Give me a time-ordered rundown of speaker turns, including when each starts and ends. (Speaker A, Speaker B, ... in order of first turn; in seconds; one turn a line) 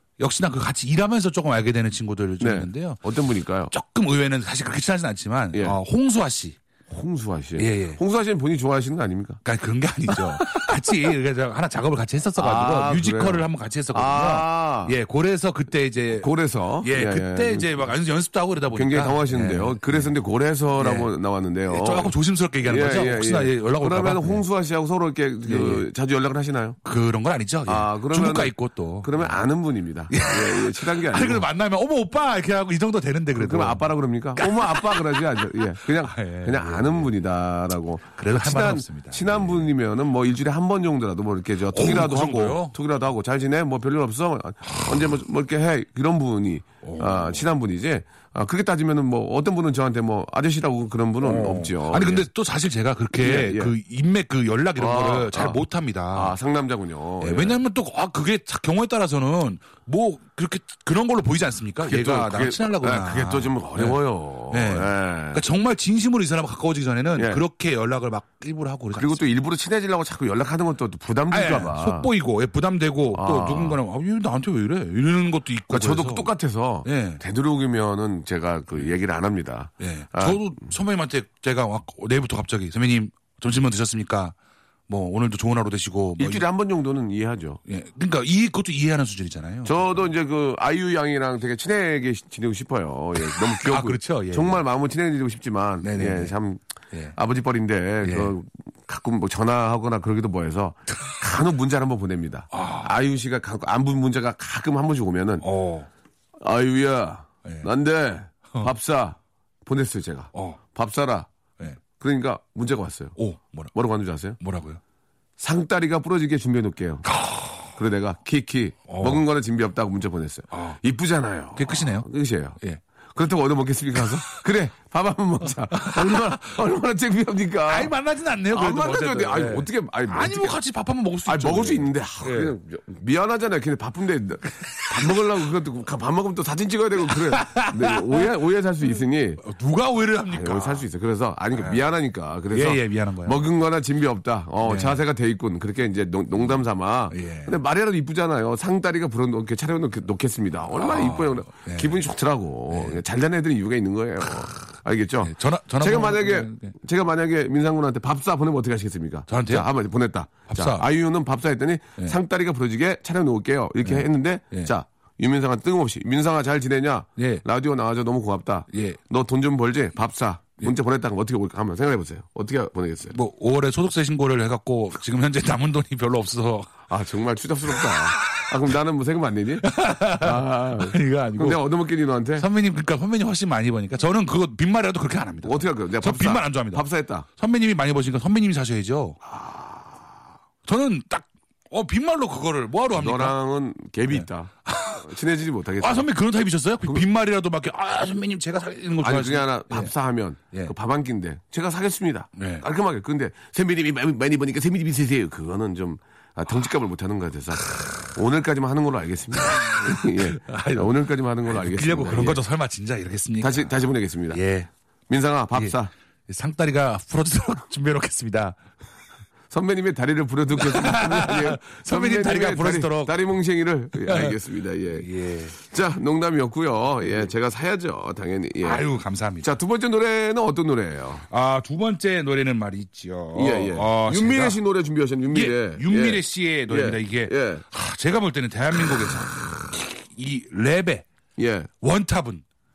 Speaker A: 0.2-3.0
Speaker B: 2.4-3.7
Speaker A: 3.7-6.6
Speaker B: 5.5-5.8
Speaker B: 6.9-9.4
Speaker A: 7.6-8.0
Speaker A: 9.4-16.3
Speaker B: 10.1-10.7
Speaker B: 12.4-14.9
Speaker B: 16.2-17.9
Speaker A: 16.8-20.1
Speaker B: 18.7-22.1
Speaker A: 20.8-21.1
Speaker A: 21.7-24.4
Speaker B: 22.6-26.8
Speaker A: 25.4-25.9
Speaker A: 26.8-29.4
Speaker B: 27.6-31.4
Speaker A: 30.1-37.1
Speaker B: 33.4-52.3
Speaker A: 38.1-39.7
Speaker A: 41.7-42.8
Speaker A: 44.8-45.1
Speaker A: 46.8-47.4
Speaker A: 51.2-56.4
Speaker B: 53.2-53.7
Speaker B: 54.8-55.6
Speaker B: 56.1-57.6
Speaker A: 57.2-69.2
Speaker B: 61.8-65.4
Speaker B: 67.2-67.4
Speaker B: 68.9-72.1
Speaker A: 71.3-76.3
Speaker B: 73.1-73.8
Speaker B: 75.7-80.7
Speaker A: 76.8-77.2
Speaker A: 79.8-84.3
Speaker A: 84.9-86.5
Speaker B: 86.2-87.6
Speaker A: 87.7-89.9
Speaker B: 89.6-96.6
Speaker A: 93.4-94.6
Speaker A: 95.8-96.3
Speaker B: 97.1-105.5
Speaker A: 98.0-98.3
Speaker A: 102.5-102.9
Speaker A: 105.4-105.9
Speaker B: 106.4-111.3
Speaker A: 110.3-110.6
Speaker B: 112.0-113.2
Speaker A: 113.2-113.7
Speaker B: 113.7-114.4
Speaker A: 114.4-114.8
Speaker B: 115.4-117.1
Speaker A: 117.0-117.7
Speaker B: 117.7-122.6
Speaker A: 118.9-119.2
Speaker A: 120.5-120.8
Speaker A: 121.5-122.1
Speaker B: 123.1-127.9
Speaker A: 124.0-124.2
Speaker A: 125.7-126.5
Speaker A: 127.7-132.5
Speaker B: 128.5-130.6
Speaker B: 131.2-139.4
Speaker A: 134.5-135.2
Speaker A: 137.0-138.3
Speaker A: 139.4-140.8
Speaker B: 140.3-173.2
Speaker A: 141.5-141.8
Speaker A: 142.5-143.5
Speaker A: 144.6-145.0
Speaker A: 147.1-147.6
Speaker A: 150.7-152.0
Speaker A: 152.7-153.0
Speaker A: 155.2-156.7
Speaker A: 159.3-159.7
Speaker A: 160.5-160.8
Speaker A: 163.8-164.7
Speaker A: 167.2-167.4
Speaker A: 168.7-169.0
Speaker A: 173.1-176.8
Speaker B: 176.9-182.4
Speaker A: 177.8-178.4
Speaker A: 179.6-181.6
Speaker A: 182.4-186.8
Speaker B: 185.4-187.2
Speaker A: 187.3-189.2
Speaker B: 189.3-190.0
Speaker A: 190.6-193.4
Speaker B: 192.9-196.1
Speaker A: 194.1-195.1
Speaker A: 195.8-199.9
Speaker B: 199.0-212.4
Speaker A: 202.3-202.6
Speaker A: 207.7-208.0
Speaker A: 209.4-213.7
Speaker B: 213.4-214.4
Speaker A: 214.3-214.7
Speaker B: 215.1-215.9
Speaker A: 215.5-218.6
Speaker B: 219.5-228.8
Speaker A: 220.6-223.2
Speaker A: 224.0-224.4
Speaker A: 224.9-225.6
Speaker A: 228.6-229.5
Speaker B: 229.4-231.2
Speaker A: 231.3-234.6
Speaker B: 233.3-237.6
Speaker A: 235.3-241.1
Speaker B: 241.4-241.7
Speaker A: 241.8-242.4